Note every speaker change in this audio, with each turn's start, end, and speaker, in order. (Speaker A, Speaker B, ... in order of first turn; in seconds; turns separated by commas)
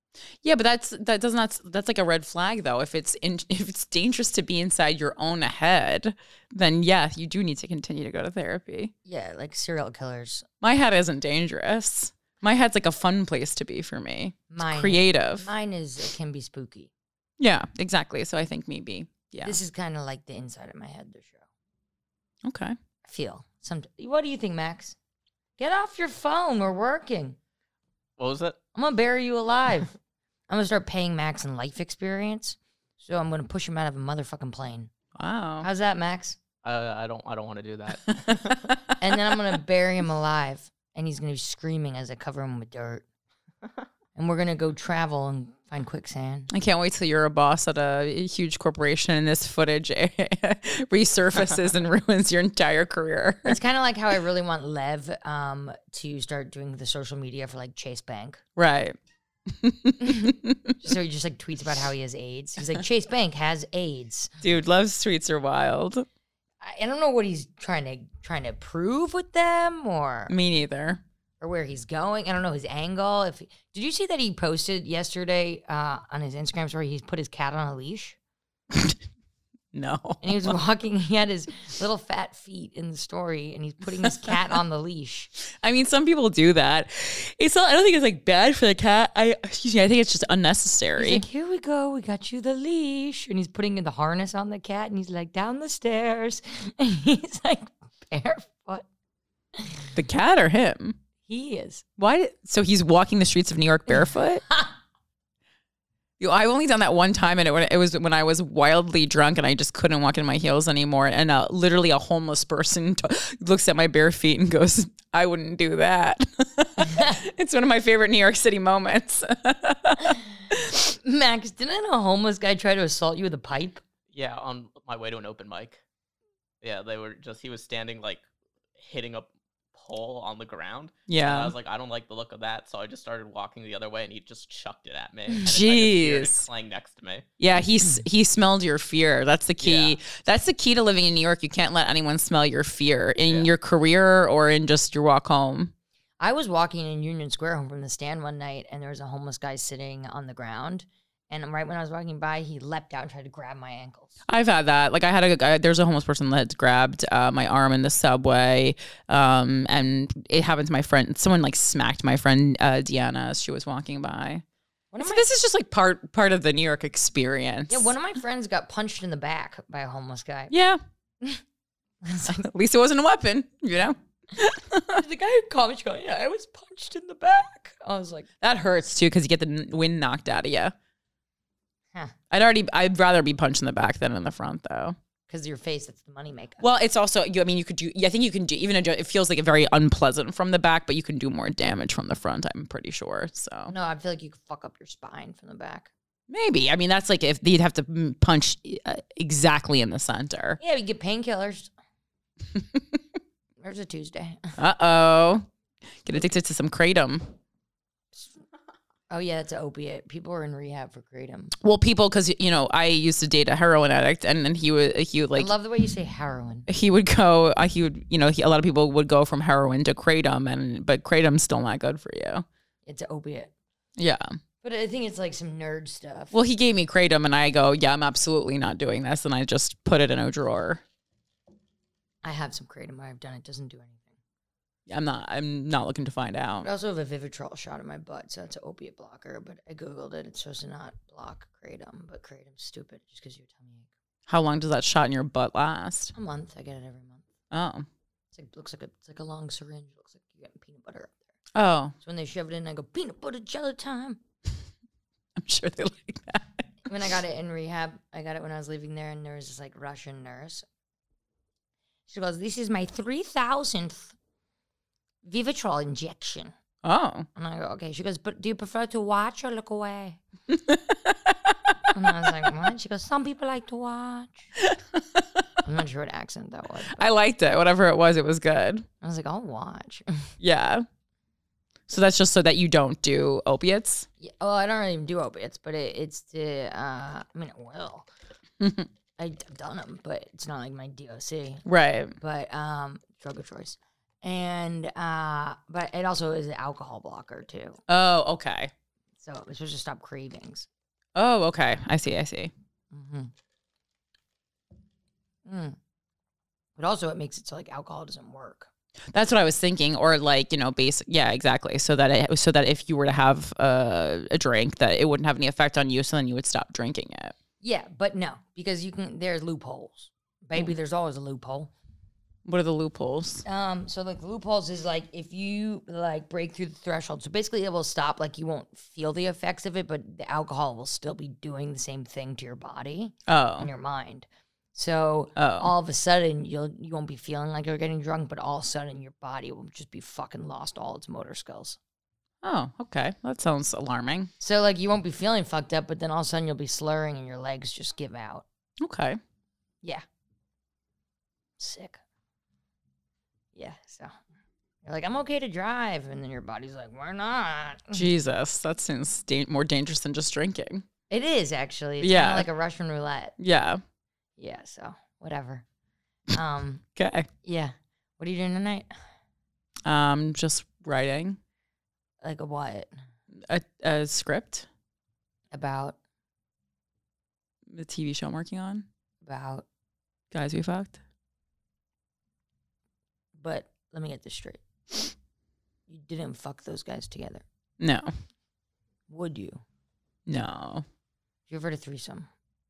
Speaker A: 0.4-8.9, Speaker B: 9.1-10.4, Speaker A: 10.6-15.5, Speaker B: 14.5-16.9, Speaker A: 17.4-19.6, Speaker B: 19.4-21.4, Speaker A: 22.4-22.8, Speaker B: 23.0-24.9, Speaker B: 25.6-27.4, Speaker C: 28.2-28.6, Speaker B: 28.7-30.0, Speaker B: 30.5-34.9, Speaker A: 35.1-35.7, Speaker B: 35.6-36.4, Speaker C: 36.6-38.6, Speaker A: 38.0-39.3, Speaker B: 39.0-43.0, Speaker B: 44.1-46.5, Speaker A: 46.5-53.6, Speaker B: 53.4-58.4, Speaker A: 58.5-59.0, Speaker A: 59.5-60.8, Speaker B: 60.0-64.4, Speaker A: 64.4-66.0, Speaker B: 66.6-70.3, Speaker A: 70.3-71.0, Speaker B: 71.4-78.2, Speaker A: 78.7-79.0, Speaker A: 79.7-80.6, Speaker B: 80.2-85.3, Speaker A: 85.6-91.2, Speaker B: 91.0-98.8, Speaker B: 99.5-99.9, Speaker A: 99.9-101.0, Speaker B: 101.2-101.8, Speaker A: 102.0-104.4, Speaker A: 106.2-120.7, Speaker B: 116.8-117.2, Speaker B: 120.7-123.8, Speaker C: 124.1-125.8, Speaker C: 126.6-128.2, Speaker C: 128.8-137.3, Speaker A: 131.1-131.5, Speaker A: 135.4-136.4, Speaker A: 137.4-145.7, Speaker C: 139.6-140.0, Speaker C: 143.2-143.5, Speaker B: 146.2-154.2, Speaker A: 154.3-164.4, Speaker B: 164.9-165.3, Speaker A: 165.0-167.9, Speaker B: 167.7-170.5, Speaker A: 170.5-170.8, Speaker B: 172.0-172.4, Speaker A: 172.3-175.0, Speaker B: 174.9-178.3, Speaker A: 178.4-180.7, Speaker A: 182.3-184.9, Speaker B: 185.3-186.6, Speaker A: 186.6-193.7, Speaker B: 193.7-195.9, Speaker A: 196.3-200.6, Speaker B: 200.6-201.7, Speaker A: 202.6-203.0, Speaker B: 203.6-204.5, Speaker A: 204.6-205.5, Speaker A: 206.0-207.3, Speaker B: 209.1-211.5, Speaker A: 211.6-215.5, Speaker B: 215.3-216.7, Speaker A: 216.7-222.4, Speaker B: 222.8-223.5, Speaker A: 224.0-224.3, Speaker B: 224.6-226.3, Speaker A: 226.3-230.8, Speaker B: 232.2-234.1, Speaker A: 234.9-236.7, Speaker B: 236.6-243.9, Speaker A: 244.3-246.1, Speaker B: 246.1-247.3, Speaker A: 247.5-247.9, Speaker B: 248.3-251.3, Speaker A: 251.5-251.9, Speaker B: 252.0-254.2, Speaker A: 255.3-256.6, Speaker B: 256.9-260.6, Speaker B: 262.1-264.1, Speaker B: 265.2-266.5, Speaker A: 266.8-267.3, Speaker B: 267.3-270.2, Speaker A: 270.5-271.5, Speaker B: 271.9-274.5, Speaker A: 274.6-275.4, Speaker B: 275.6-277.0, Speaker A: 276.9-278.9, Speaker B: 279.0-280.3, Speaker A: 280.4-280.8, Speaker A: 281.9-284.1, Speaker B: 284.2-288.1, Speaker A: 288.6-288.9, Speaker B: 289.2-291.6, Speaker A: 291.6-292.1, Speaker B: 292.2-297.8, Speaker A: 297.9-298.7, Speaker B: 299.2-300.7, Speaker A: 301.1-302.5, Speaker B: 302.9-303.3, Speaker B: 305.4-305.8, Speaker B: 306.8-308.7, Speaker A: 309.1-317.3, Speaker B: 317.6-321.7, Speaker A: 322.4-323.4, Speaker B: 323.4-341.8, Speaker A: 333.3-333.7, Speaker A: 335.4-335.7, Speaker A: 342.4-344.3, Speaker B: 344.4-348.4, Speaker A: 348.8-349.2, Speaker B: 351.6-352.0, Speaker B: 353.5-354.1, Speaker B: 354.8-358.1, Speaker A: 357.9-360.8, Speaker B: 361.1-363.4, Speaker A: 362.0-362.5, Speaker A: 363.4-363.8, Speaker B: 364.4-365.6, Speaker B: 366.3-366.8, Speaker A: 366.9-367.3, Speaker B: 367.4-368.9, Speaker A: 369.9-371.4, Speaker B: 372.2-372.9, Speaker A: 373.4-374.6, Speaker B: 375.5-376.0, Speaker A: 377.7-378.9, Speaker B: 379.2-379.6, Speaker A: 380.3-381.0, Speaker B: 383.4-385.1, Speaker B: 385.9-387.4, Speaker A: 387.8-388.1, Speaker B: 389.1-389.6, Speaker A: 390.3-390.8, Speaker B: 391.5-392.3